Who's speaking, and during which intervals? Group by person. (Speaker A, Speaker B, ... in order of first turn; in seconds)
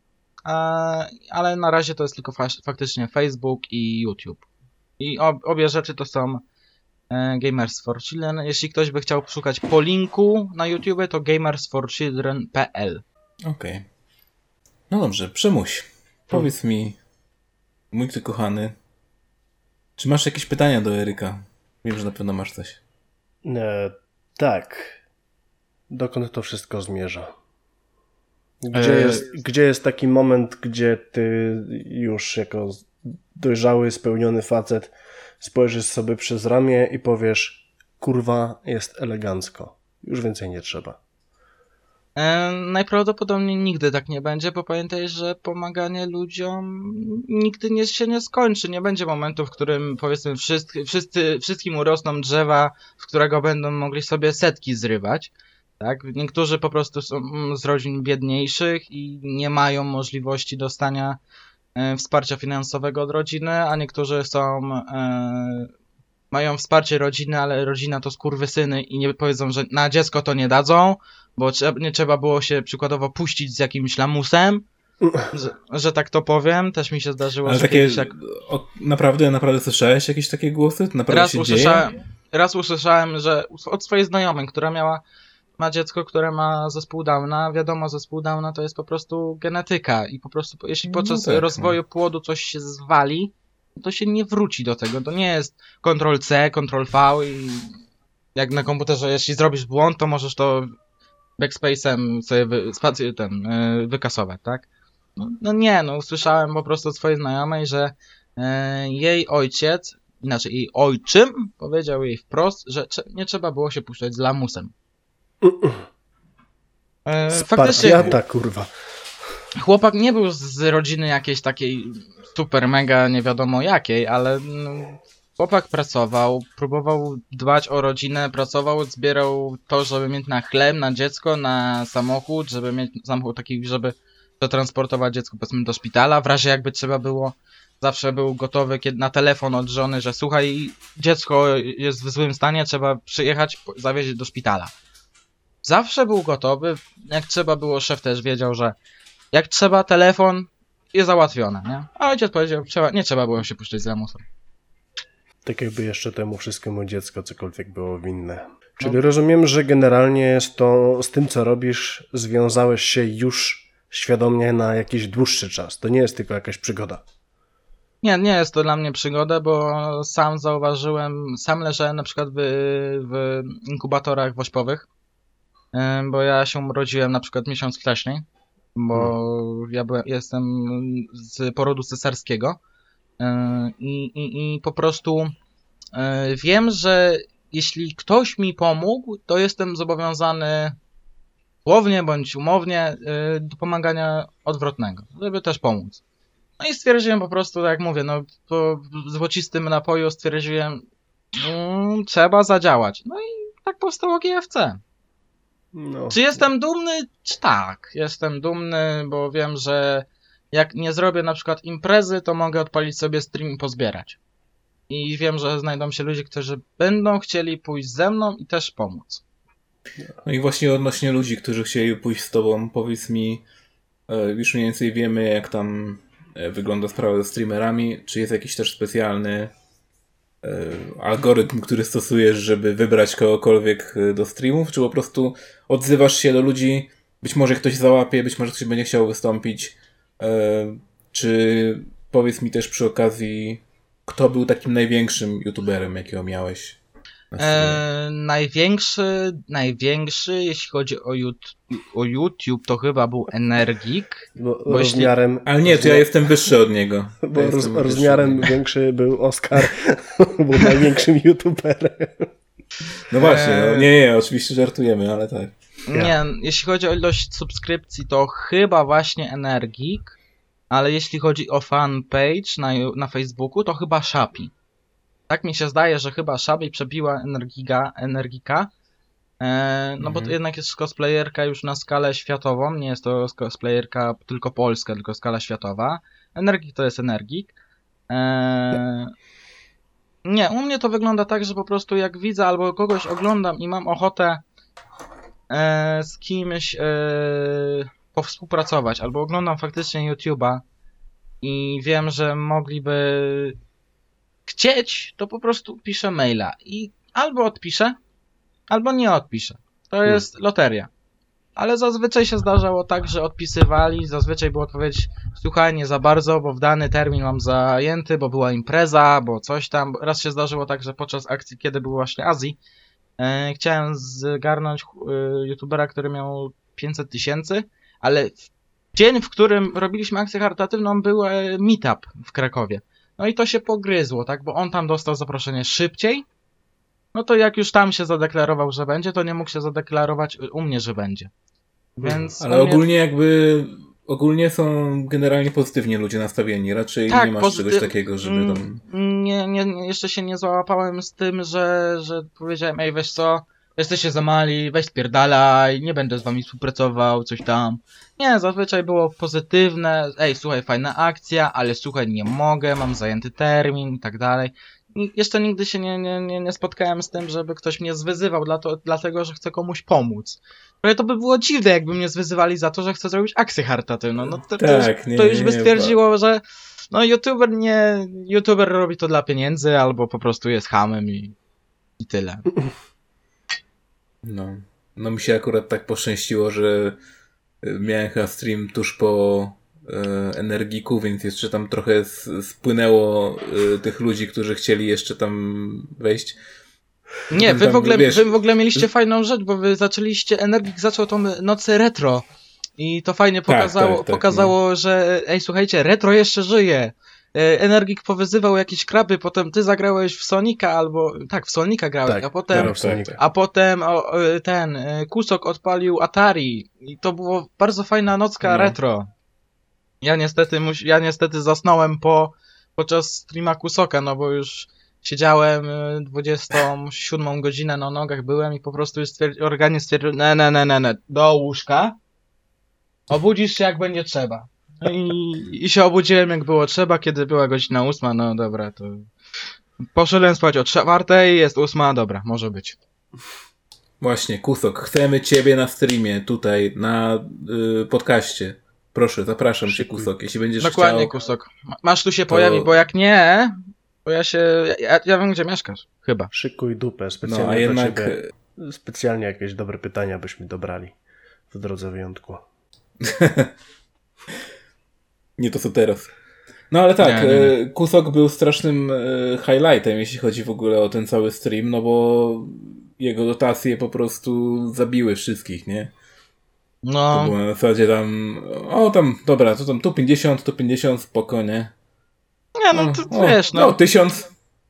Speaker A: 0.5-4.4, 5.0-6.4, 7.1-13.0, 28.7-29.2, 42.1-61.2, 61.8-65.7, 66.3-74.6, 75.3-78.1, 81.1-85.0, 85.6-97.7, 98.3-100.7, 101.4-114.7, 117.0-118.1, 119.5-144.7, 145.6-148.7, 149.3-154.2, 168.0-174.9, 175.7-178.2, 178.8-182.6, 183.2-185.3, 185.9-190.8, 191.6-196.0, 196.6-200.8, 201.3-204.8, 206.1-214.2, 214.9-219.2, 247.4-255.1, 263.2-263.9, 265.9-270.2, 270.7-274.5, 275.3-278.7, 279.4-287.5, 288.1-289.1, 290.2-294.4, 295.5-300.6, 301.4-303.6, 304.5-307.9, 308.7-310.9, 311.6-322.6, 323.2-336.2, 337.1-341.3, 342.0-342.8, 347.1-381.4, 382.0-382.5, 397.3-402.2, 402.8-419.1, 420.0-432.0, 433.1-439.1, 439.9-442.8, 450.6-456.3, 467.0-467.5, 476.8-477.3, 482.6-483.7
Speaker B: 13.4-13.8, 14.9-17.0, 17.9-18.7, 20.0-22.8, 77.4-81.8, 90.9-91.8, 117.8-118.1, 220.2-223.4, 224.1-229.5, 230.4-246.8, 247.3-247.8, 255.4-258.5, 263.1-265.5, 280.0-280.3, 342.4-348.8, 374.6-375.9, 384.2-387.0, 387.6-396.4, 397.3-398.8, 403.5-404.5, 412.5-413.2, 418.4-418.8, 444.0-451.1, 452.3-452.7, 457.2-458.3, 463.0-463.5, 465.4-466.1, 466.7-475.9, 477.1-481.7, 482.7-484.3
Speaker C: 23.4-24.9, 25.9-27.3, 28.6-41.0, 75.0-75.3, 115.4-115.8, 117.3-118.7, 155.4-167.0, 205.7-206.2, 254.3-256.1, 257.2-262.3, 342.0-342.3, 412.0-413.2, 449.7-450.1, 456.3-460.9, 461.5-462.4